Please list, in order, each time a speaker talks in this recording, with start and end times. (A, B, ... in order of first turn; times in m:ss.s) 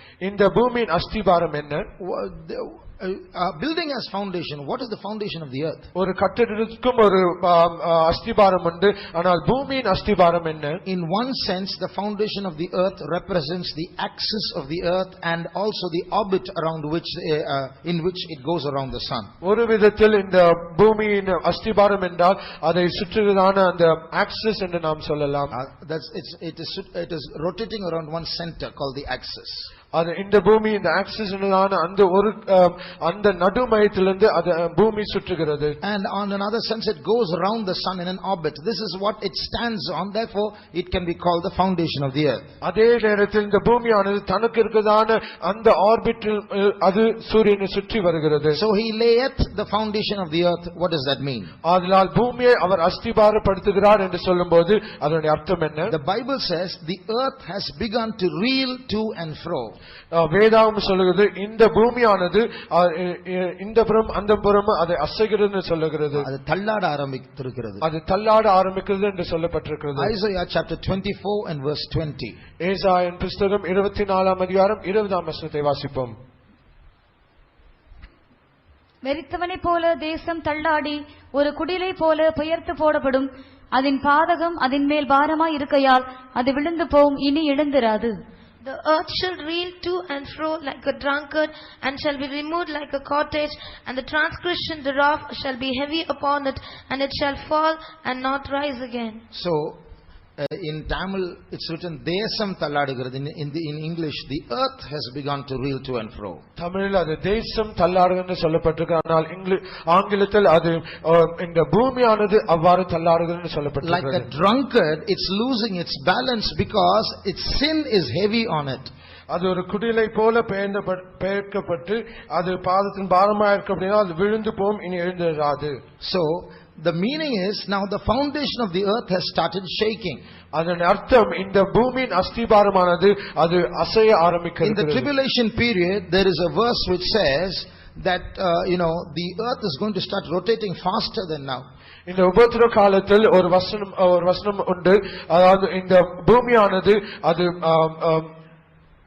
0:00.2-0:01.9 A
0:02.0-0:05.9 B
0:06.0-0:10.8 A
0:10.9-0:19.3 B
0:19.4-0:25.5 A
0:25.5-0:29.7 B
0:29.9-0:35.8 A
0:35.8-0:42.5 B
0:42.6-0:48.6 A
0:48.5-0:51.5 B
0:51.6-0:56.0 A
0:55.9-0:59.8 B
1:00.1-1:06.3 A
1:06.2-1:07.8 B
1:07.8-1:10.1 A
1:10.0-1:12.4 B
1:12.6-1:16.2 A
1:19.0-1:28.1 C
1:28.6-1:39.2 D
1:39.3-1:39.8 B
1:40.4-1:46.4 B
1:46.6-1:54.3 A
1:53.8-1:58.9 B
1:59.3-2:05.8 A
2:06.0-2:10.2 B
2:10.5-2:15.1 A
2:14.6-2:21.7 B
2:22.1-2:28.3 A